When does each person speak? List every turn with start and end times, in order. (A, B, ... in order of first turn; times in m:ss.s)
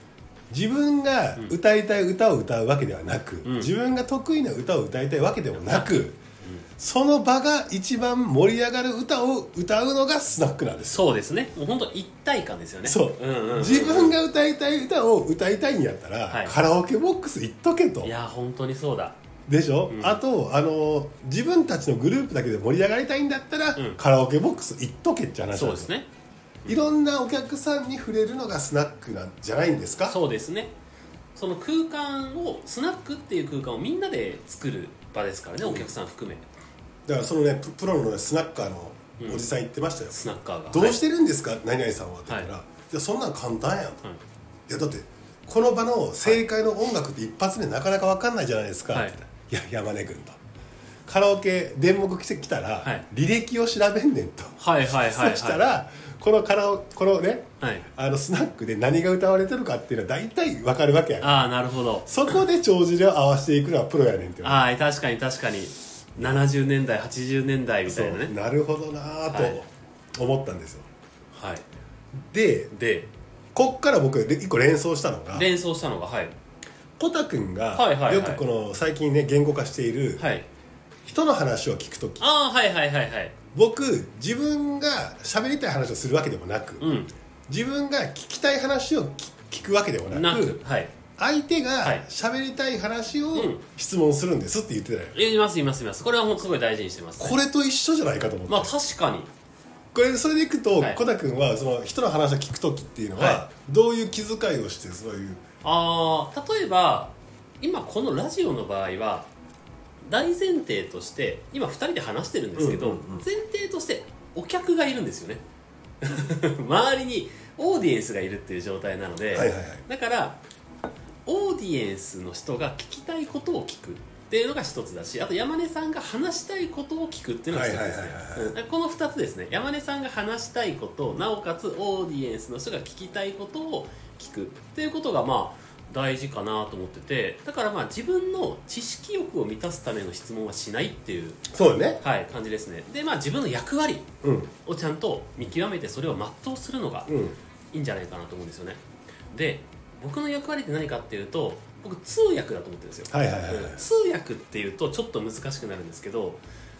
0:00.5-0:06.2 A
0:03.4-0:03.7 B
0:05.6-0:06.6 B
0:06.8-0:11.1 A
0:10.9-0:14.2 B
0:12.8-0:18.1 A
0:18.0-0:19.2 B
0:19.5-0:25.9 A
0:19.9-0:20.2 B
0:25.5-0:26.1 B
0:26.7-0:30.2 A
0:30.0-0:30.7 B
0:31.4-0:36.4 B
0:35.6-0:35.9 A
0:37.1-0:44.0 A
0:39.2-0:39.4 B
0:40.1-0:41.0 B
0:44.7-0:50.4 A
0:48.9-0:49.2 B
0:51.1-1:01.4 A
0:54.6-0:55.6 B
1:01.2-1:02.1 B
1:02.1-1:04.7 A
1:04.4-1:08.3 B
1:06.2-1:06.4 A
1:07.9-1:10.9 A
1:09.3-1:09.6 B
1:11.3-1:11.6 B
1:12.3-1:12.7 A
1:12.7-1:13.1 B
1:13.6-1:15.5 A
1:15.3-1:16.4 B
1:17.0-1:20.3 A
1:17.8-1:18.4 B
1:20.2-1:20.5 B
1:21.0-1:22.3 A
1:22.2-1:23.3 B
1:23.5-1:26.9 A
1:26.8-1:27.1 B
1:27.5-1:30.6 A
1:30.1-1:30.9 B
1:31.2-1:35.2 A
1:33.3-1:33.6 B
1:35.2-1:37.4 B
1:37.2-1:38.7 A
1:38.5-1:39.3 B
1:39.9-1:45.4 A
1:40.8-1:41.0 B
1:43.2-1:43.4 B
1:45.6-1:49.3 B
1:50.0-1:55.4 B
1:52.6-1:53.3 A
1:56.0-2:00.4 B
1:59.3-1:59.8 A
2:01.3-2:21.4 B
2:07.5-2:08.5 A
2:21.5-2:22.0 A
2:22.0-2:24.1 B
2:24.2-2:24.5 A
2:24.6-2:27.1 B
2:27.1-2:27.4 A
2:27.7-2:28.8 B
2:29.3-2:36.4 B
2:33.1-2:33.8 A